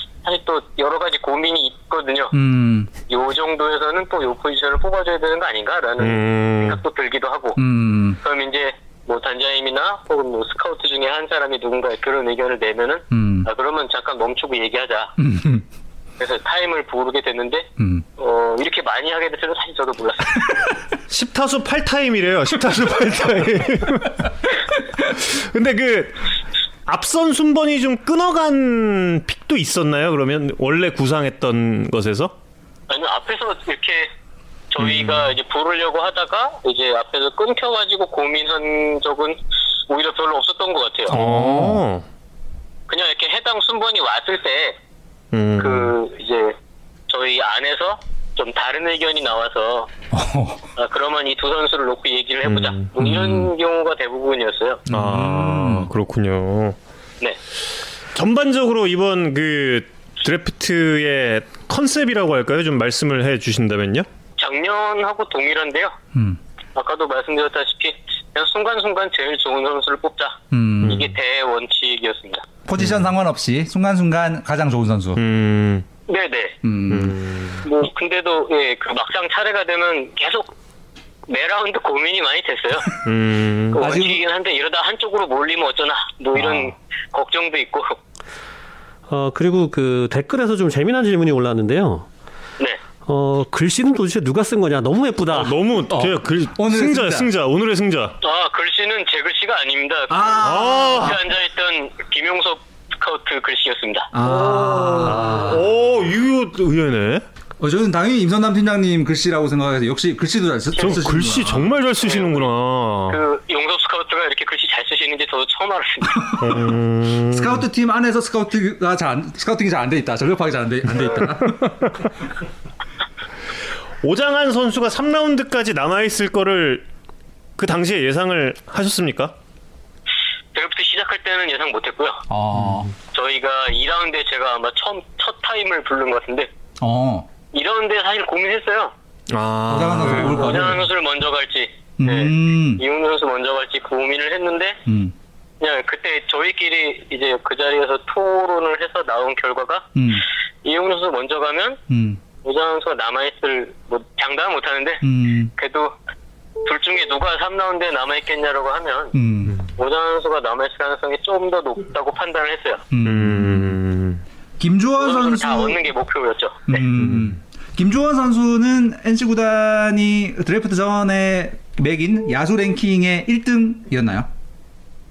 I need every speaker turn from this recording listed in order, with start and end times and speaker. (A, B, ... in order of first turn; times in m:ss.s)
0:00.2-0:02.3 A
0:02.3-0:02.9 B
0:03.1-0:07.6 A
0:06.0-0:06.8 C
0:07.6-0:08.2 B
0:08.2-0:15.1 A
0:13.1-0:13.5 B
0:15.2-0:15.6 B
0:16.2-0:20.5 A
0:17.8-0:18.0 B
0:21.1-0:24.5 C
0:25.1-0:26.2 C
0:26.9-0:32.3 C
0:32.9-0:34.1 A
0:34.7-0:41.2 A
0:34.8-0:35.3 C
0:41.1-0:41.8 B
0:41.1-0:42.0 C
0:42.9-0:44.8 A
0:45.3-0:46.0 C
0:45.6-0:46.6 A
0:47.1-0:49.9 A
0:50.1-0:50.6 B
0:50.8-0:54.8 A
0:52.4-0:53.5 C
0:54.9-0:55.9 B
0:54.9-0:56.8 C
0:58.1-1:04.1 C
1:04.4-1:05.9 A
1:06.1-1:06.4 B
1:06.7-1:12.4 A
1:10.5-1:11.1 B
1:10.8-1:11.1 C
1:12.6-1:15.2 B
1:15.2-1:15.8 C
1:16.1-1:16.6 A
1:16.6-1:17.2 B
1:16.9-1:17.6 C
1:17.6-1:20.5 A
1:21.3-1:22.9 A
1:23.0-1:23.8 C
1:23.7-1:28.0 A
1:23.8-1:24.2 B
1:26.3-1:26.7 B
1:29.1-1:32.0 D
1:33.0-1:35.6 D
1:35.3-1:38.2 C
1:35.9-1:37.3 B
1:38.2-1:44.6 A
1:40.1-1:41.2 B
1:40.4-1:41.2 C
1:44.1-1:45.6 B
1:44.8-1:45.5 D
1:45.3-1:47.2 C
1:47.6-1:51.8 B
1:50.8-1:53.2 C
1:52.0-1:52.4 A
1:53.1-1:56.3 A
1:56.1-1:56.7 B
1:56.4-1:57.6 C
1:57.3-2:01.9 B
2:04.0-2:06.8 C
2:07.6-2:09.3 C
2:10.5-2:12.2 A
2:12.3-2:12.9 B
2:12.5-2:12.8 C
2:13.0-2:16.5 A
2:16.8-2:17.3 B
2:17.5-2:18.9 A
2:19.3-2:20.8 C
2:19.7-2:20.8 B
2:20.0-2:24.8 A
2:22.0-2:22.8 B
2:24.8-2:25.1 B
2:25.6-2:29.9 A
2:30.0-2:30.2 B
2:30.6-2:31.8 A
2:31.9-2:32.2 B
2:32.4-2:35.0 A
2:35.0-2:35.5 B
2:35.6-2:35.9 A
2:36.6-2:39.1 A
2:39.1-2:39.6 B
2:39.8-2:42.8 A
2:42.9-2:43.8 B
2:43.0-2:44.2 C
2:44.6-2:45.9 B
2:45.0-2:46.8 A
2:46.7-2:54.3 B
2:47.0-2:47.3 C